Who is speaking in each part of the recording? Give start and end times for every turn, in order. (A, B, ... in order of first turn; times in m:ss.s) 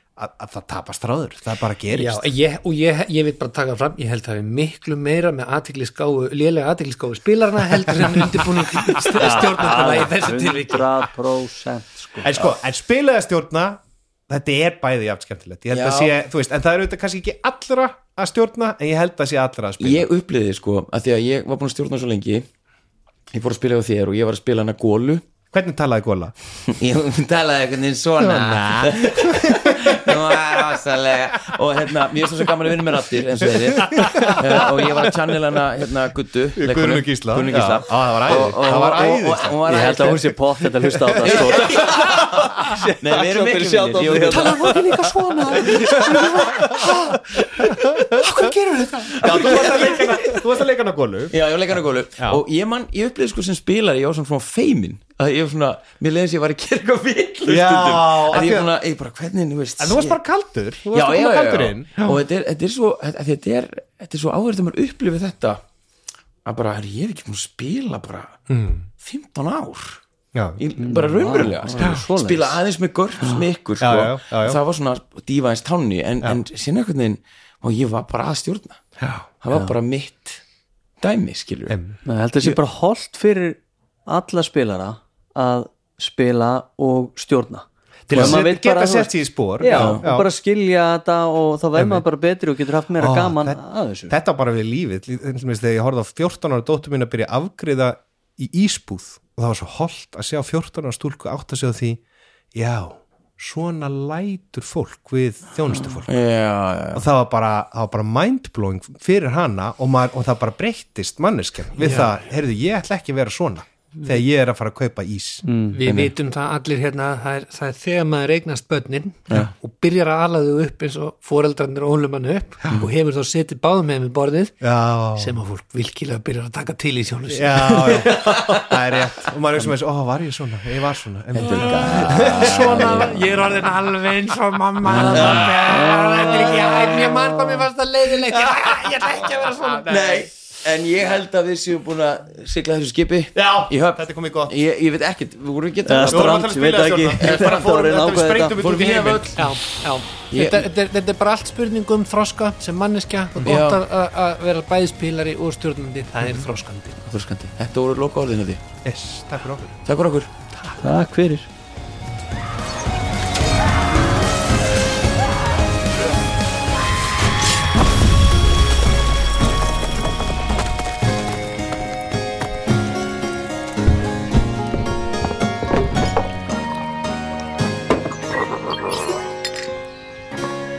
0:00.2-0:02.2 A
0:01.9-0:11.0 B
0:07.9-0:08.3 A
0:09.0-0:12.4 C
0:12.2-0:20.1 A
0:15.7-0:16.1 D
0:19.8-0:22.5 D
0:23.3-0:25.2 D
0:25.5-0:26.3 A
0:26.7-0:40.3 D
0:28.2-0:30.4 A
0:33.4-0:35.1 A
0:36.6-0:39.6 A
0:39.6-0:47.4 C
0:41.0-0:41.6 A
0:41.2-0:44.8 D
0:44.3-0:50.0 B
0:46.3-0:46.9 A
0:47.7-0:48.3 A
0:49.1-0:50.3 D
0:49.2-0:52.4 A
0:51.3-1:00.2 D
0:57.4-0:58.7 A
0:59.8-1:02.2 A
1:00.9-1:05.6 D
1:06.4-1:08.4 D
1:08.5-1:08.9 A
1:09.0-1:10.0 D
1:10.3-1:10.6 A
1:10.6-1:18.8 D
1:10.8-1:12.6 C
1:11.8-1:12.0 A
1:13.8-1:14.6 A
1:19.0-1:19.2 A
1:19.4-1:20.4 D
1:21.0-1:21.8 D
1:21.7-1:22.0 A
1:22.0-1:34.1 C
1:28.1-1:30.2 A
1:28.1-1:28.4 D
1:29.7-1:30.0 D
1:31.7-1:32.0 A
1:33.0-1:42.0 A
1:42.5-1:46.1 A
1:45.8-1:47.0 D
1:46.9-1:55.4 A
1:51.8-1:52.1 B
1:55.4-1:55.8 C
1:55.7-2:04.6 B
1:55.8-1:56.1 D
2:04.6-2:05.3 A
2:05.1-2:08.3 B
2:07.3-2:13.2 A
2:08.1-2:08.7 D
2:11.3-2:13.1 D
2:11.5-2:20.1 B
2:14.9-2:16.9 C
2:15.1-2:15.6 D
2:18.3-2:20.3 A
2:19.8-2:26.5 D
2:23.3-2:24.5 A
2:25.8-2:28.6 C
2:26.1-2:29.4 A
2:28.6-2:29.5 D
2:29.4-2:37.0 B
2:30.3-2:30.7 D
2:33.4-2:33.8 D
2:37.0-2:38.6 D
2:38.8-2:39.7 A
2:39.8-2:40.3 D
2:40.6-2:40.8 B
2:40.8-2:41.5 C